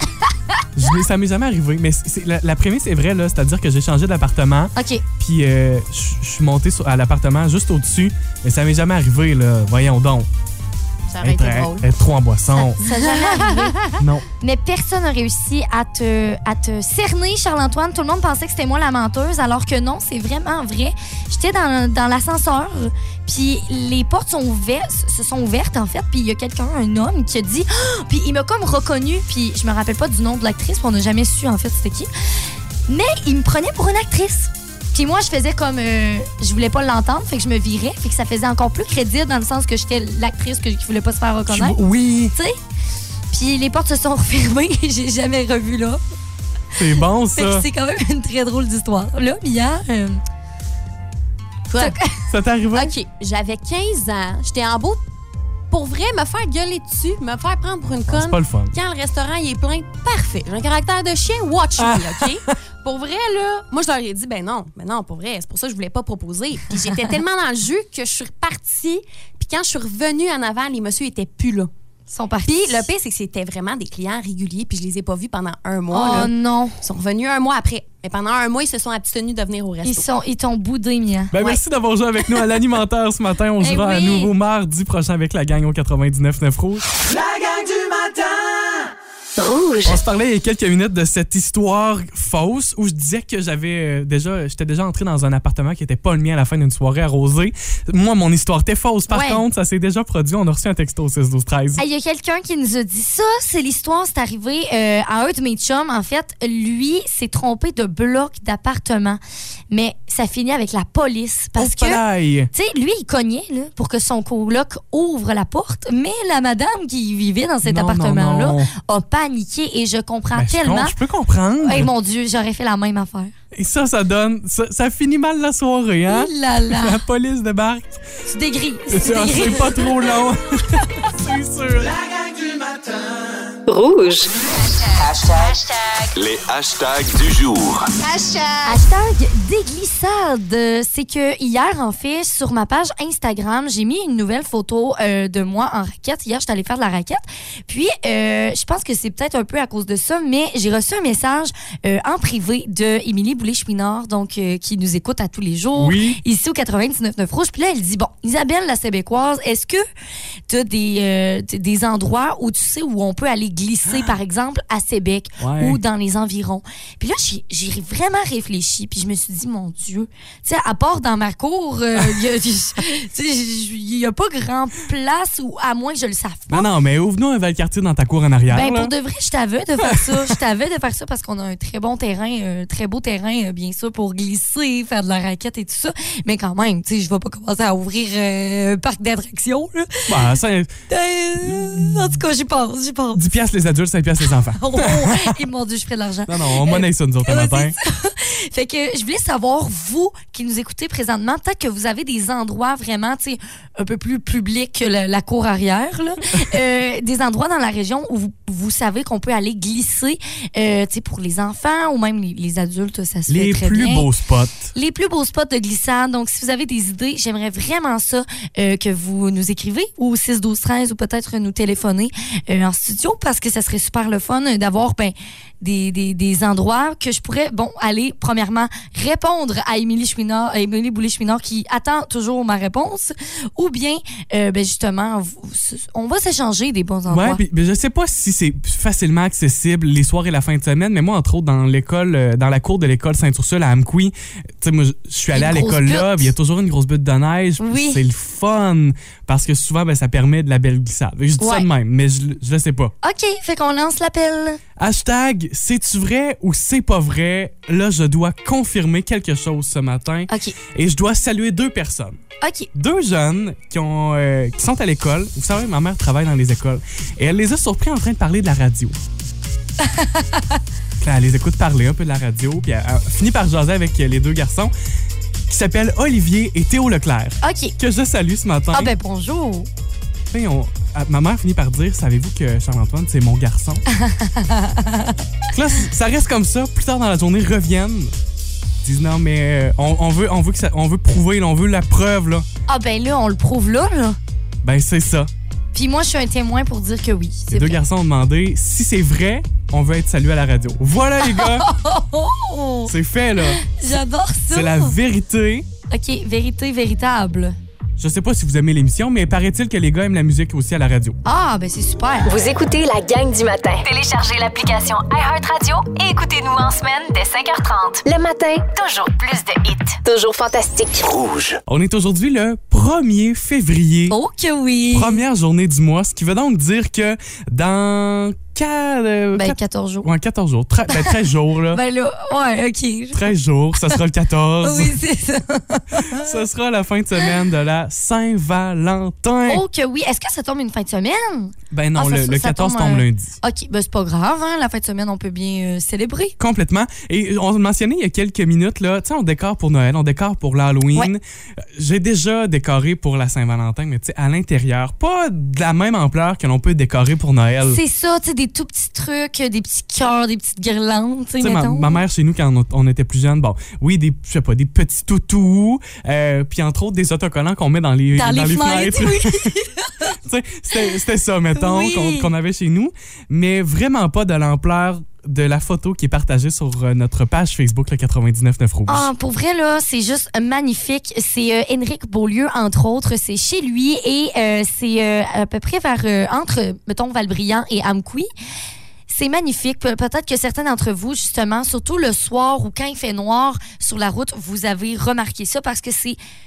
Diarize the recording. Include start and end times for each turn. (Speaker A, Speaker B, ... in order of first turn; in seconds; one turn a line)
Speaker A: 0.8-10.3
Speaker B: 4.8-5.0
Speaker C: 11.1-11.9
Speaker A: 11.2-12.8
Speaker B: 12.5-13.8
Speaker C: 12.8-13.9
Speaker A: 14.0-14.3
Speaker B: 14.4-32.1
Speaker B: 32.9-41.8
Speaker A: 41.5-42.3
Speaker B: 42.3-42.6
Speaker B: 43.3-46.0
Speaker A: 46.8-47.7
Speaker B: 47.4-50.2
Speaker C: 51.7-52.0
Speaker B: 51.8-52.3
Speaker A: 52.3-52.9
Speaker C: 52.7-55.0
Speaker C: 55.7-71.7
Speaker A: 58.1-58.8
Speaker A: 61.8-62.2
Speaker B: 72.1-72.9
Speaker C: 72.5-76.3
Speaker B: 75.9-76.8
Speaker C: 76.8-80.1
Speaker B: 79.8-81.6
Speaker A: 81.3-86.9
Speaker B: 83.6-84.3
Speaker D: 87.0-88.9
Speaker E: 89.4-90.0
Speaker A: 89.8-101.8
Speaker B: 99.1-99.4
Speaker B: 101.8-109.2
Speaker B: 109.7-121.0
Speaker A: 111.6-112.5
Speaker A: 117.6-118.7
Speaker A: 120.3-121.9
Speaker B: 121.6-123.3
Speaker A: 123.5-128.0
Speaker B: 126.1-127.0
Speaker B: 128.3-130.1
Speaker A: 128.9-131.9
Speaker D: 131.9-133.4
Speaker E: 133.7-134.3
Speaker F: 134.8-138.6
Speaker B: 138.7-159.8
Speaker A: 155.8-156.2
Speaker B: 160.5-176.7
Speaker A: 165.4-165.8
Speaker A: 172.0-172.2
Speaker A: 176.5-178.9
Speaker B: 178.5-190.3
Speaker A: 179.8-180.4
Speaker A: 190.1-190.7
Speaker B: 190.9-193.2
Speaker A: 191.4-191.9
Speaker A: 193.2-195.4
Speaker B: 194.5-214.1
Speaker A: 196.3-197.8
Speaker A: 213.3-214.7
Speaker B: 214.7-237.4
Speaker A: 237.1-252.9
Speaker B: 245.3-246.3
Speaker B: 247.6-248.0
Speaker B: 251.4-251.7
Speaker B: 253.0-254.6
Speaker A: 254.8-262.2
Speaker B: 260.3-260.6
Speaker B: 262.4-262.7
Speaker A: 262.7-269.0
Speaker B: 269.8-270.6
Speaker A: 271.0-274.7
Speaker A: 275.5-278.9
Speaker B: 277.4-277.8
Speaker B: 278.7-279.7
Speaker A: 280.3-283.8
Speaker B: 283.9-285.2
Speaker A: 285.5-288.1
Speaker A: 288.8-292.5
Speaker B: 292.7-294.2
Speaker A: 294.6-295.3
Speaker B: 295.7-297.8
Speaker A: 297.5-301.7
Speaker B: 301.2-304.9
Speaker A: 302.9-303.7
Speaker A: 304.5-305.7
Speaker B: 305.9-307.6
Speaker A: 308.0-311.2
Speaker B: 311.2-312.4
Speaker E: 312.2-321.1
Speaker F: 321.0-321.6
Speaker A: 321.7-324.2
Speaker B: 324.1-325.2
Speaker A: 324.9-331.8
Speaker B: 329.3-330.1
Speaker B: 330.9-331.1
Speaker B: 331.7-334.0
Speaker A: 333.1-335.0
Speaker B: 334.6-336.4
Speaker A: 335.9-339.6
Speaker B: 339.5-346.4
Speaker A: 341.7-343.4
Speaker A: 346.4-357.8
Speaker B: 357.6-362.0
Speaker A: 361.4-369.5
Speaker B: 368.1-370.1
Speaker A: 370.2-379.1
Speaker B: 371.6-372.3
Speaker B: 378.9-388.3
Speaker B: 389.1-396.2